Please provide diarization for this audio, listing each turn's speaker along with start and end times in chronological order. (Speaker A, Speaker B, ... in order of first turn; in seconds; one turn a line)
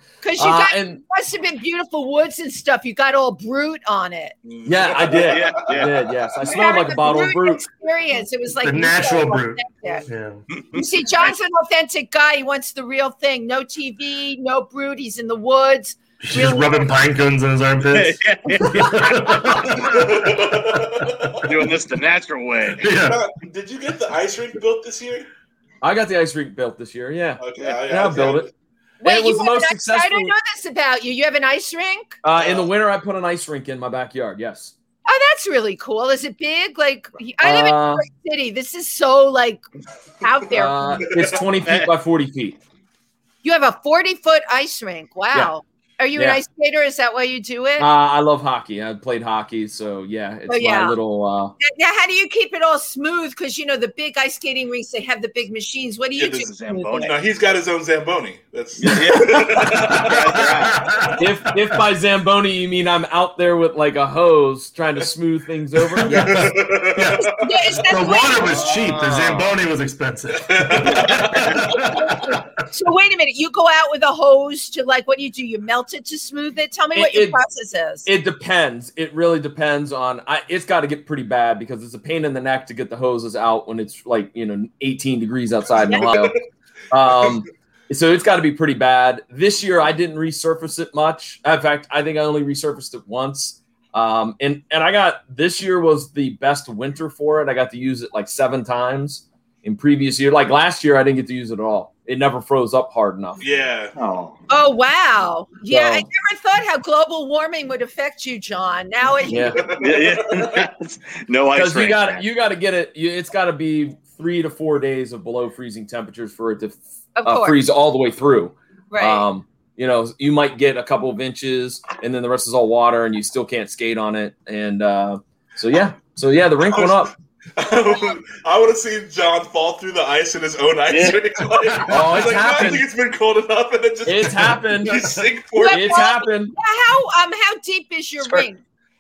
Speaker A: 0.2-4.4
Speaker B: 0.4-1.0
Speaker C: 4.4-5.6
Speaker B: 4.7-7.7
Speaker D: 5.3-6.0
Speaker A: 6.4-10.1
Speaker E: 8.6-10.4
Speaker D: 10.6-11.3
Speaker A: 10.7-16.9
Speaker E: 16.2-20.4
Speaker D: 17.9-19.9
Speaker C: 19.8-21.5
Speaker D: 21.4-22.9
Speaker E: 22.8-23.2
Speaker C: 23.0-25.3
Speaker B: 25.8-28.5
Speaker C: 27.4-28.5
Speaker A: 29.0-32.2
Speaker B: 29.0-30.3
Speaker B: 32.2-34.7
Speaker C: 32.4-32.7
Speaker A: 35.1-39.6
Speaker B: 37.4-38.0
Speaker A: 40.2-41.0
Speaker B: 40.5-42.6
Speaker C: 41.0-41.4
Speaker D: 41.6-41.9
Speaker A: 43.4-47.9
Speaker B: 46.2-46.4
Speaker B: 47.8-51.5
Speaker A: 50.5-51.0
Speaker A: 51.6-57.1
Speaker D: 56.2-57.2
Speaker C: 57.0-60.7
Speaker D: 58.8-61.0
Speaker E: 60.0-61.2
Speaker B: 61.2-66.4
Speaker E: 66.0-72.4
Speaker C: 66.1-67.4
Speaker A: 67.2-68.5
Speaker D: 68.4-69.5
Speaker C: 70.3-71.6
Speaker D: 71.1-71.5
Speaker A: 71.7-78.1
Speaker B: 76.9-77.4
Speaker B: 78.0-86.4
Speaker C: 85.8-86.4
Speaker B: 86.9-103.4
Speaker C: 103.4-103.9
Speaker D: 104.0-104.4
Speaker A: 104.5-109.6
Speaker B: 105.7-106.1
Speaker B: 109.3-109.6
Speaker C: 109.5-110.6
Speaker D: 109.8-112.3
Speaker B: 111.5-127.1
Speaker A: 117.2-117.6
Speaker A: 118.9-119.3
Speaker C: 126.6-136.2
Speaker A: 127.9-128.1
Speaker D: 130.9-131.2
Speaker E: 131.7-132.2
Speaker B: 131.9-132.9
Speaker B: 134.1-135.0
Speaker A: 135.6-138.6
Speaker B: 135.6-136.6